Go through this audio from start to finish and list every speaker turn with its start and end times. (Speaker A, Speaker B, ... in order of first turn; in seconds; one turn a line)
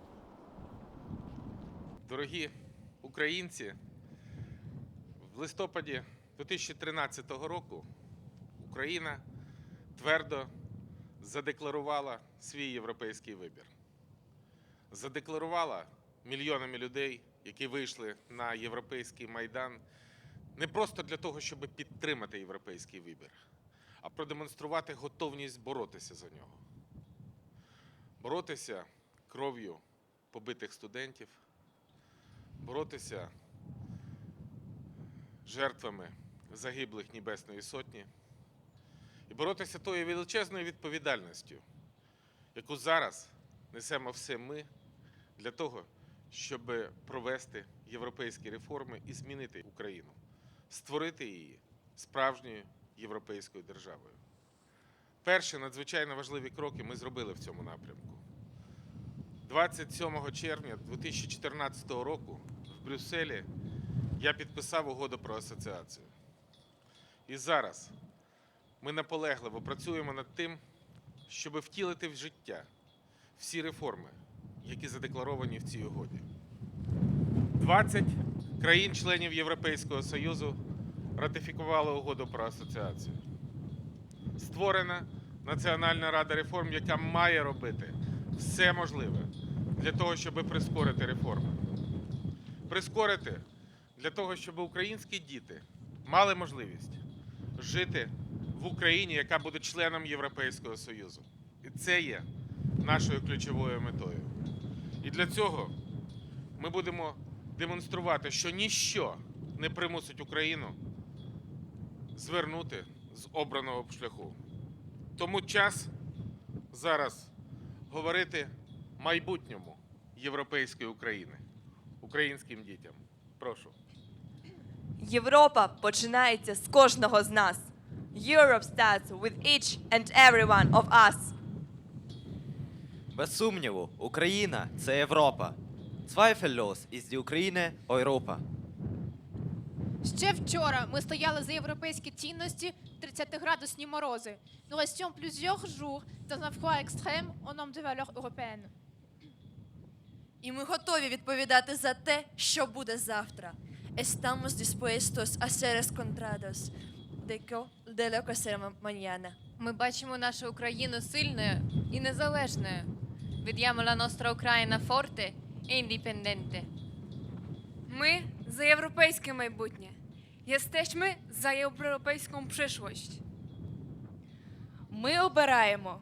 Speaker A: 2.0-2.5
Speaker A: 3.0-3.8
Speaker A: 5.2-7.9
Speaker A: 8.6-9.2
Speaker A: 9.9-10.5
Speaker A: 11.2-13.7
Speaker A: 14.9-19.8
Speaker A: 20.6-23.4
Speaker A: 24.0-26.6
Speaker A: 28.2-31.4
Speaker A: 32.6-33.3
Speaker A: 35.5-38.1
Speaker A: 39.3-41.6
Speaker A: 42.5-44.7
Speaker A: 45.4-50.2
Speaker A: 50.7-54.2
Speaker A: 55.2-58.2
Speaker A: 59.4-63.5
Speaker A: 64.2-66.1
Speaker A: 67.3-68.0
Speaker A: 68.8-70.6
Speaker A: 71.3-72.7
Speaker A: 73.4-76.3
Speaker A: 77.5-80.6
Speaker A: 81.2-83.2
Speaker A: 84.4-91.6
Speaker A: 92.7-93.5
Speaker A: 94.0-97.0
Speaker A: 97.6-102.3
Speaker A: 102.8-104.3
Speaker A: 105.0-105.8
Speaker A: 106.6-110.8
Speaker A: 112.2-114.4
Speaker A: 115.2-115.9
Speaker A: 116.7-117.3
Speaker A: 117.9-121.4
Speaker A: 122.0-123.8
Speaker B: 125.0-131.3
Speaker C: 133.1-138.4
Speaker D: 140.0-148.7
Speaker E: 150.4-159.4
Speaker F: 159.6-162.9
Speaker F: 163.4-166.7
Speaker G: 167.9-173.2